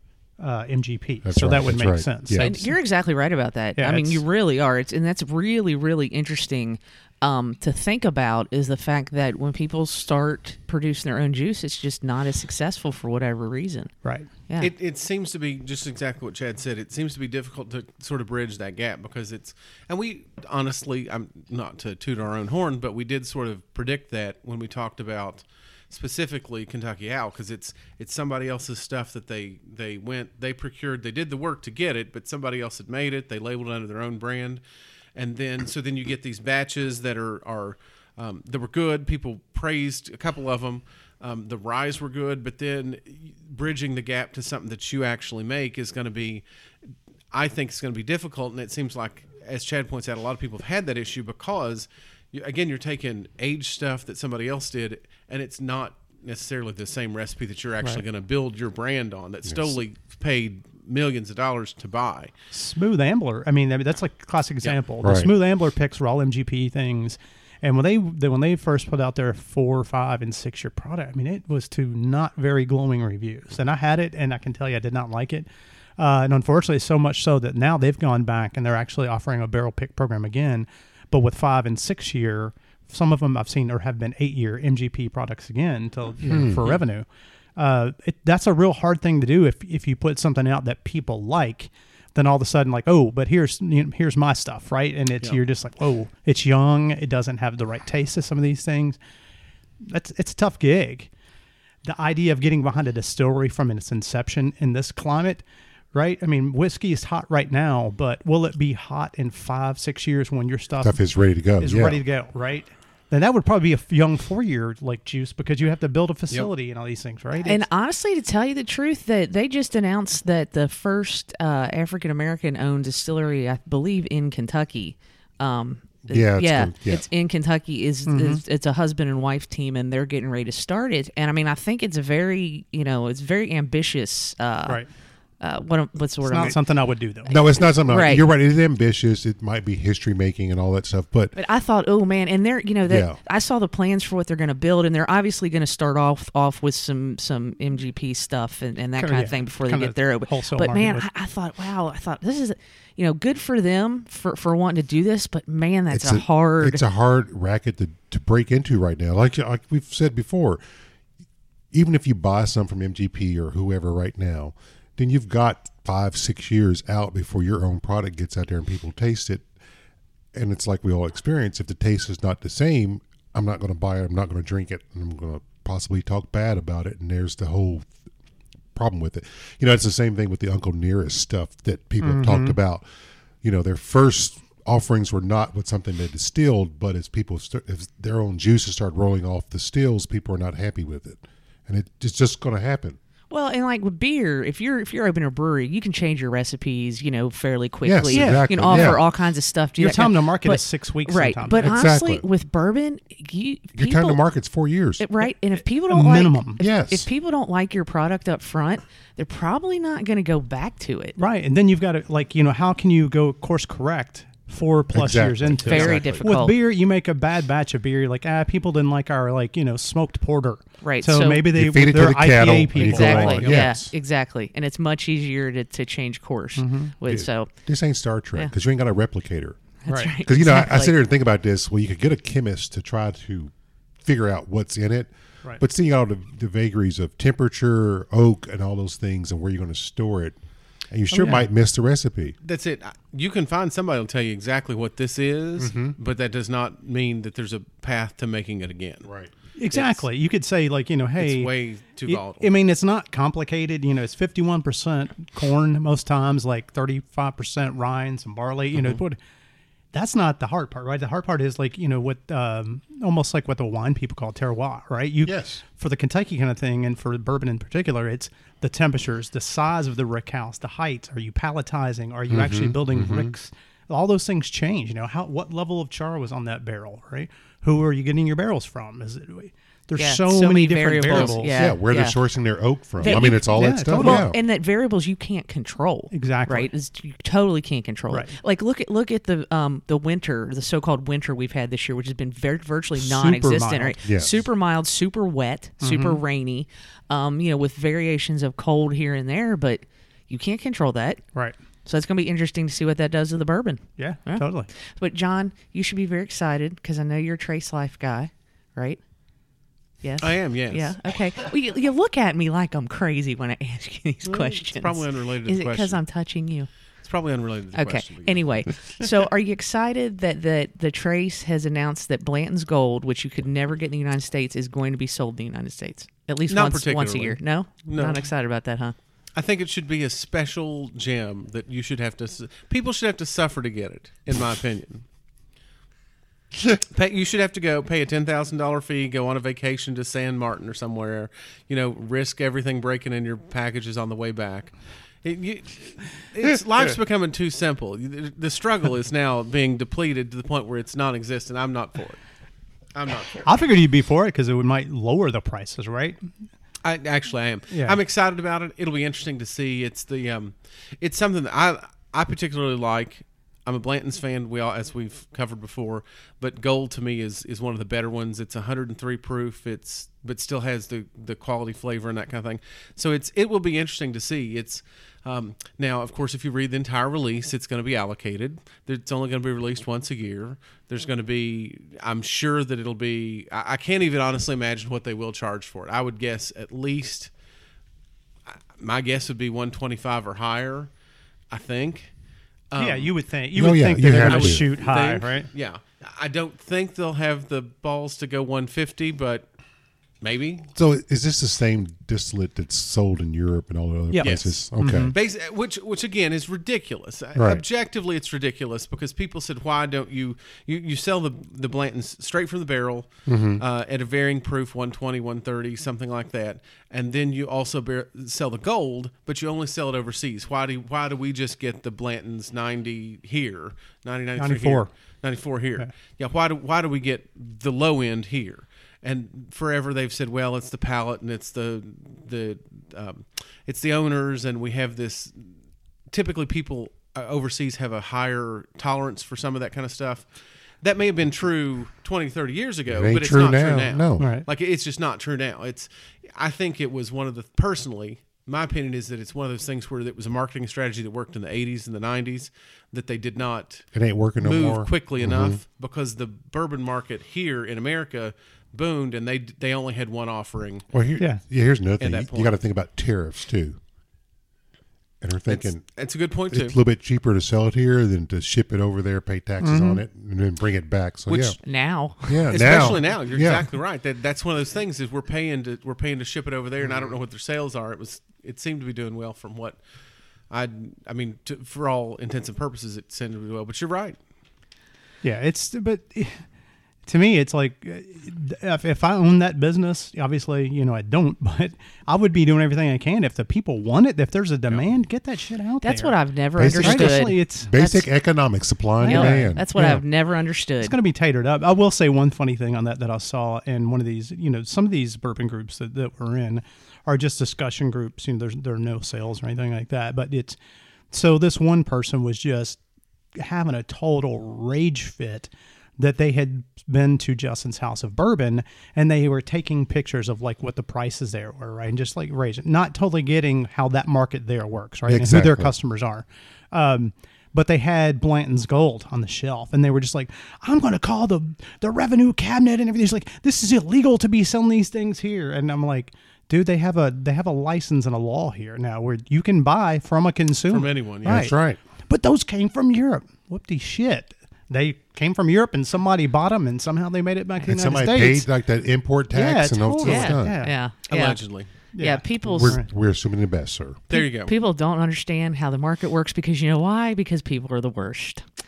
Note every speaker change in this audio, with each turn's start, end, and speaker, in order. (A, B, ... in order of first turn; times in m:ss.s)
0:00.4-0:02.8 A
0:01.2-0:02.5 B
0:02.4-0:13.9 C
0:03.8-0:04.2 A
0:14.6-0:34.6 D
0:35.1-0:46.4 D
0:47.3-1:02.3 D
0:59.4-0:59.8 B
1:02.5-1:15.5 A
1:05.0-1:05.3 B
1:16.0-1:39.0 A
1:26.2-1:26.6 B
1:39.9-1:41.1 A
1:41.8-1:51.0 A
1:50.8-1:52.0 B
1:51.6-1:57.6 A
1:57.4-2:14.8 C
2:06.1-2:07.0 B
2:08.1-2:08.4 A
2:15.4-2:16.6 C
2:16.2-2:17.3 A
2:17.2-2:21.4 B
2:17.3-2:18.3 C
2:21.3-2:36.8 C
2:22.8-2:23.2 B
2:29.0-2:31.1 A
2:35.9-2:40.6 B
2:41.7-2:49.4 B
2:50.3-2:57.9 B
2:58.7-3:02.8 B
3:02.0-3:02.6 A
3:03.4-3:13.0 B
3:13.3-3:24.2 C
3:17.8-3:19.0 B
3:18.1-3:19.0 A
3:19.8-3:21.8 A
3:21.6-3:22.2 B
3:23.8-3:25.0 B
3:25.0-3:31.2 C
3:25.9-3:26.6 A
3:26.6-3:27.1 B
3:31.2-3:43.5 A
3:34.9-3:36.2 B
3:35.6-3:36.5 C
3:40.8-3:41.5 C
3:41.5-3:43.9 B
3:42.8-3:47.5 C
3:43.4-3:43.7 D
3:46.6-3:46.9 A
3:47.1-3:49.6 B
3:49.8-3:50.9 C
3:49.9-3:50.1 A
3:50.2-3:53.5 B
3:54.0-4:00.4 B
4:00.9-4:02.4 B
4:01.1-4:01.5 A
4:02.4-4:09.1 D
4:05.6-4:06.0 B
4:09.0-4:09.3 B
4:09.6-4:11.5 A
4:09.7-4:10.0 D
4:11.2-4:12.5 D
4:12.0-4:19.2 A
4:18.7-4:19.0 D
4:19.9-4:41.7 A
4:25.2-4:25.6 B
4:32.3-4:33.3 B
4:40.0-4:42.2 C
4:41.1-4:41.4 D
4:41.6-4:44.4 B
4:43.0-5:01.2 C
4:43.0-4:44.3 A
4:46.1-4:46.7 A
4:53.0-4:54.0 A
4:54.0-4:54.4 B
4:55.8-4:56.2 A
5:01.8-5:09.0 C
5:04.0-5:04.7 A
5:10.0-5:16.7 C
5:10.2-5:10.9 D
5:14.2-5:16.0 D
5:17.0-5:19.1 D
5:17.7-5:28.9 C
5:26.5-5:28.3 D
5:29.3-5:35.0 D
5:36.8-5:52.2 D
5:52.9-5:53.4 D
5:53.4-5:56.2 A
5:56.8-6:27.3 D
5:57.7-5:58.0 A
6:28.8-6:30.9 D
6:31.5-6:32.1 D
6:32.7-6:33.1 D
6:32.8-6:35.5 A
6:33.5-6:34.7 B
6:34.1-6:39.5 D
6:40.2-6:40.6 D
6:40.7-6:45.1 B
6:44.1-6:45.2 A
6:44.2-7:15.5 D
6:47.3-6:47.6 B
6:53.3-6:53.6 B
7:04.4-7:04.9 A
7:16.1-7:20.3 D
7:20.8-7:33.9 D
7:22.9-7:24.3 B
7:24.2-7:24.4 A
7:33.9-7:35.6 B
7:34.4-7:40.8 D
7:40.9-7:43.8 B
7:42.0-7:42.5 D
7:45.2-7:45.8 B
7:45.5-7:46.8 D
7:46.5-7:51.6 B
7:49.6-7:50.0 A
7:51.3-7:51.6 D
7:51.6-7:52.6 C
7:52.3-7:53.7 B
7:52.5-7:59.8 D
8:00.5-8:04.2 D
8:05.2-8:06.4 A
8:07.0-8:16.2 A
8:15.8-8:18.1 C
8:16.6-8:19.7 B
8:16.7-8:17.7 A
8:19.0-8:21.0 C
8:19.0-8:20.0 A
8:20.8-8:30.6 A
8:31.1-8:32.8 A
8:33.4-9:08.5 A
8:45.1-8:45.7 B
9:00.7-9:01.5 D
9:01.2-9:01.8 B
9:07.6-9:10.6 B
9:09.3-9:10.7 A
9:10.0-9:11.4 C
9:11.1-9:11.7 D
9:11.9-9:12.9 A
9:12.0-9:12.8 C
9:12.4-9:14.0 B
9:14.1-9:14.5 D
9:14.1-9:18.4 C